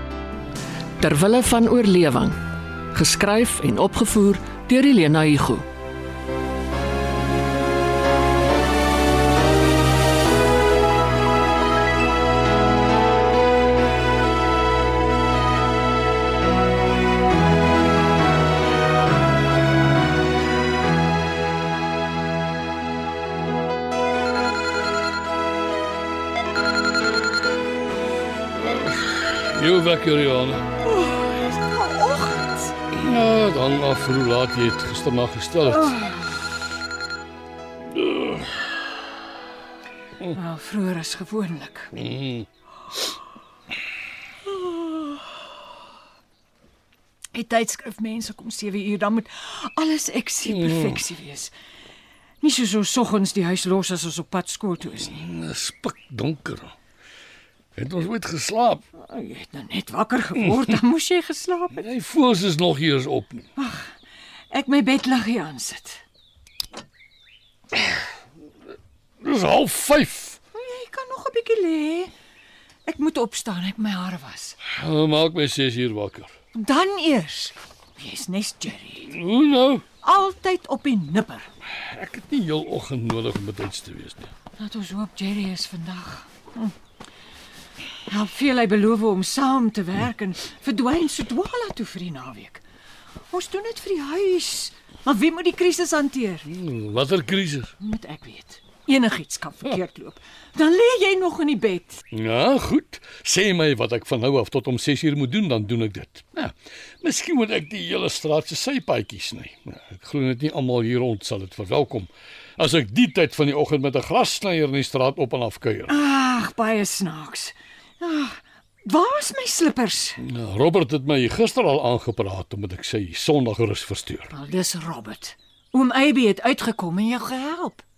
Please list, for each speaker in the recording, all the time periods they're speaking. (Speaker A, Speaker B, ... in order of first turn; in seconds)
Speaker A: 1.0-2.4, 2.9-5.7
Speaker B: 28.5-30.7, 33.0-36.0, 37.9-38.8, 42.0-42.5, 50.5-51.0, 55.1-56.7, 57.8-58.8, 60.4-60.8, 61.7-63.5, 69.2-70.4, 74.7-76.3, 79.1-79.8, 81.7-84.3, 96.5-97.7, 102.1-116.0, 120.2-124.3
Speaker C: 31.7-32.5, 35.7-36.4, 40.3-41.9, 44.5-45.1, 47.3-51.5, 52.4-55.1, 59.0-61.9, 63.5-63.9, 64.5-66.0, 70.5-72.1, 72.9-74.6, 76.5-79.1, 80.0-81.5, 84.6-86.7, 88.1-92.6, 93.3-96.5, 97.8-102.0, 115.9-120.2, 124.3-127.8